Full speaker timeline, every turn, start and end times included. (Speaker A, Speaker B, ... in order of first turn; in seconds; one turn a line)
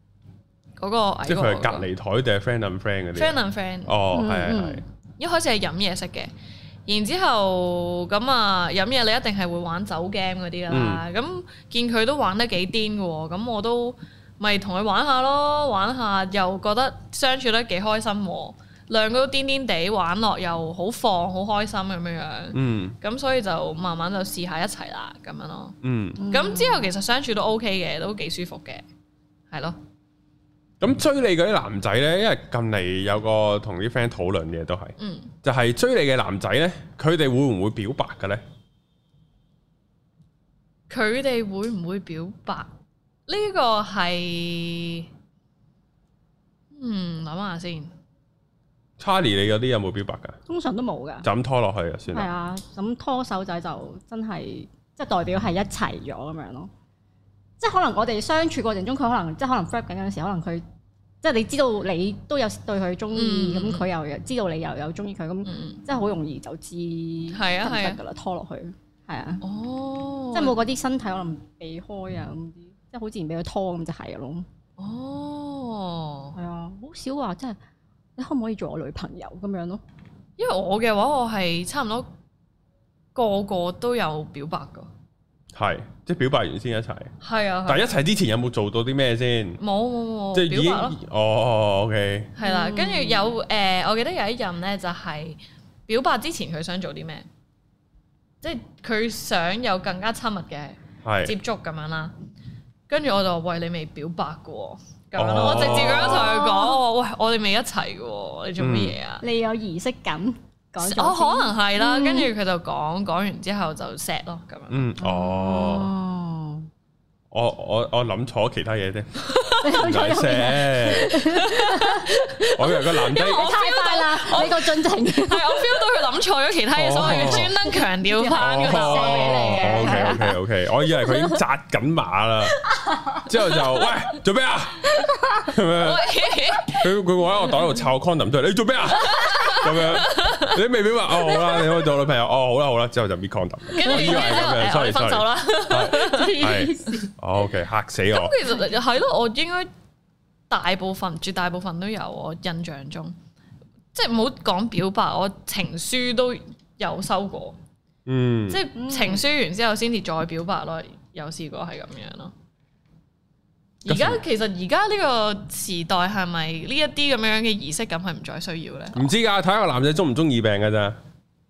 Speaker A: 0.8-1.9
Speaker B: 1.2-4.8
Speaker A: 3.1-3.9
Speaker C: 4.1-4.8
Speaker A: 5.2-6.3
Speaker A: 6.9-28.8
Speaker B: 10.7-11.0
Speaker B: 22.5-22.9
Speaker B: 25.8-26.2
Speaker C: 26.2-26.9
Speaker A: 29.5-29.8
Speaker B: 30.8-38.4
Speaker A: 35.0-35.3
Speaker A: 40.9-42.7
Speaker A: 43.3-45.1
Speaker A: 46.7-47.9
Speaker B: 49.0-50.4
Speaker C: 50.5-51.3
Speaker B: 51.2-52.3
Speaker C: 52.1-56.7
Speaker C: 57.6-60.6
Speaker C: 61.2-69.4
Speaker A: 63.1-63.9
Speaker A: 65.5-65.8
Speaker A: 67.3-68.0
Speaker A: 69.4-70.6
Speaker C: 70.3-74.5
Speaker A: 74.8-76.4
Speaker C: 76.3-77.6
Speaker C: 78.2-79.8
Speaker A: 80.4-82.1
Speaker A: 83.1-84.9
Speaker B: 85.5-87.1
Speaker A: 87.2-87.9
Speaker B: 87.7-89.6
Speaker A: 89.6-91.0
Speaker B: 90.3-92.3
Speaker A: 92.4-97.2
Speaker C: 92.4-93.3
Speaker A: 98.4-102.1
Speaker B: 101.0-101.3
Speaker A: 102.9-109.2
Speaker B: 105.2-106.4
Speaker C: 105.6-106.8
Speaker B: 108.6-108.9
Speaker C: 109.2-112.3
Speaker A: 110.8-114.9
Speaker B: 114.7-115.9
Speaker C: 115.0-116.7
Speaker B: 117.3-121.2
Speaker C: 119.5-125.9
Speaker A: 121.1-130.1
Speaker B: 122.5-123.5
Speaker B: 126.7-127.5
Speaker C: 127.0-131.4
Speaker B: 128.4-136.1
Speaker C: 132.8-133.6
Speaker C: 134.9-135.5
Speaker A: 135.8-136.9
Speaker B: 136.6-148.3
Speaker A: 139.0-140.6
Speaker A: 143.7-146.9
Speaker C: 143.8-144.6
Speaker C: 145.9-147.1
Speaker A: 148.1-149.7
Speaker A: 150.5-153.1
Speaker A: 153.9-157.6
Speaker B: 158.1-158.6
Speaker A: 158.5-162.3
Speaker C: 158.8-159.2
Speaker B: 163.8-164.2
Speaker A: 163.8-169.1
Speaker B: 168.9-170.9